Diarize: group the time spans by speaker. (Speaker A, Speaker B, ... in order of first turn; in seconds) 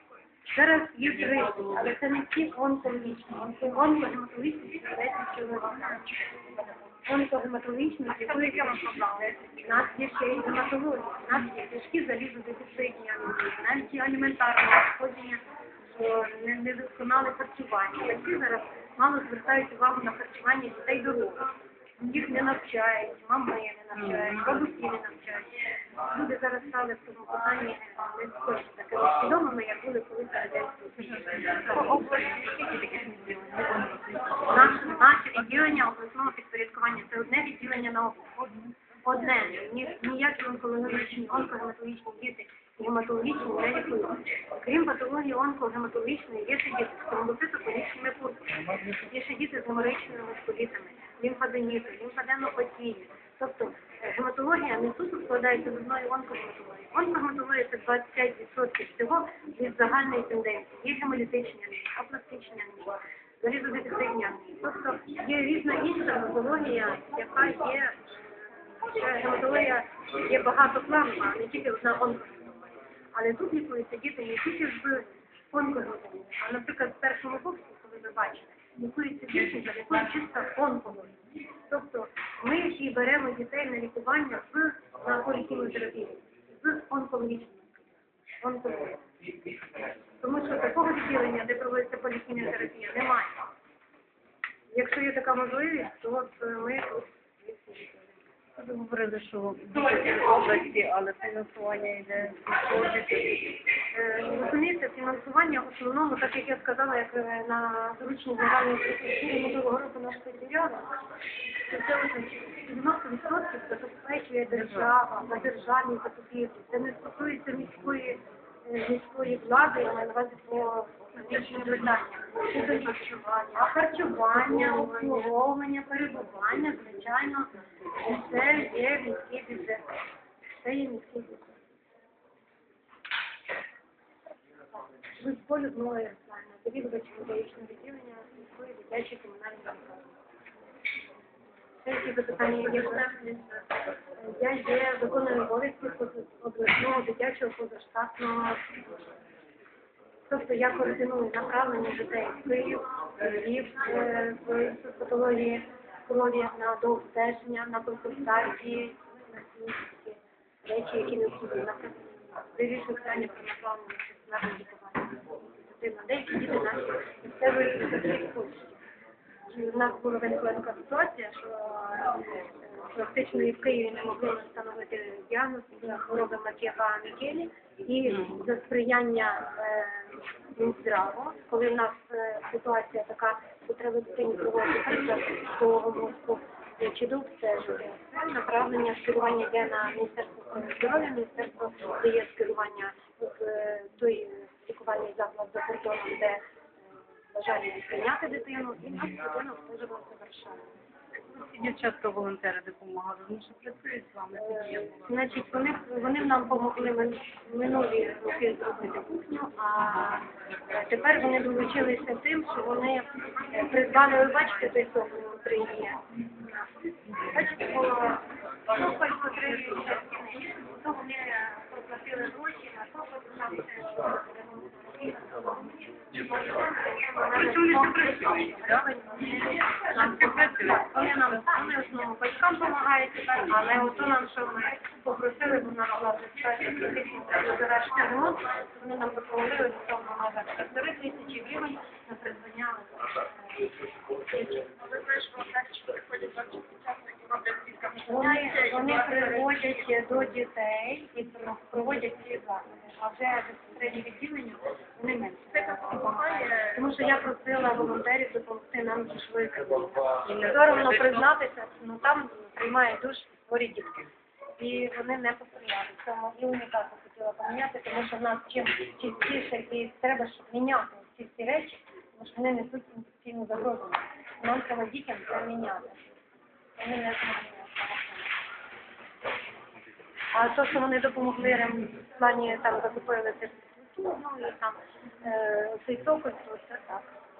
Speaker A: 0.5-21.4, 22.0-25.5, 26.1-32.1, 34.4-38.4, 39.0-81.1, 81.7-87.9, 88.4-89.0, 90.2-93.3, 94.7-98.2, 103.9-110.9, 111.7-129.9, 130.6-131.5, 135.2-140.1, 141.8-148.7, 150.3-168.7, 169.5-196.4, 197.3-200.6, 204.3-216.6, 217.2-243.6, 244.3-245.5, 248.0-276.0, 276.8-278.3, 280.3-287.1
Speaker B: 8.3-9.1, 23.9-24.6, 30.9-35.0, 98.6-103.5, 114.5-114.9, 201.3-205.1, 227.4-228.5, 230.0-231.4, 260.2-261.2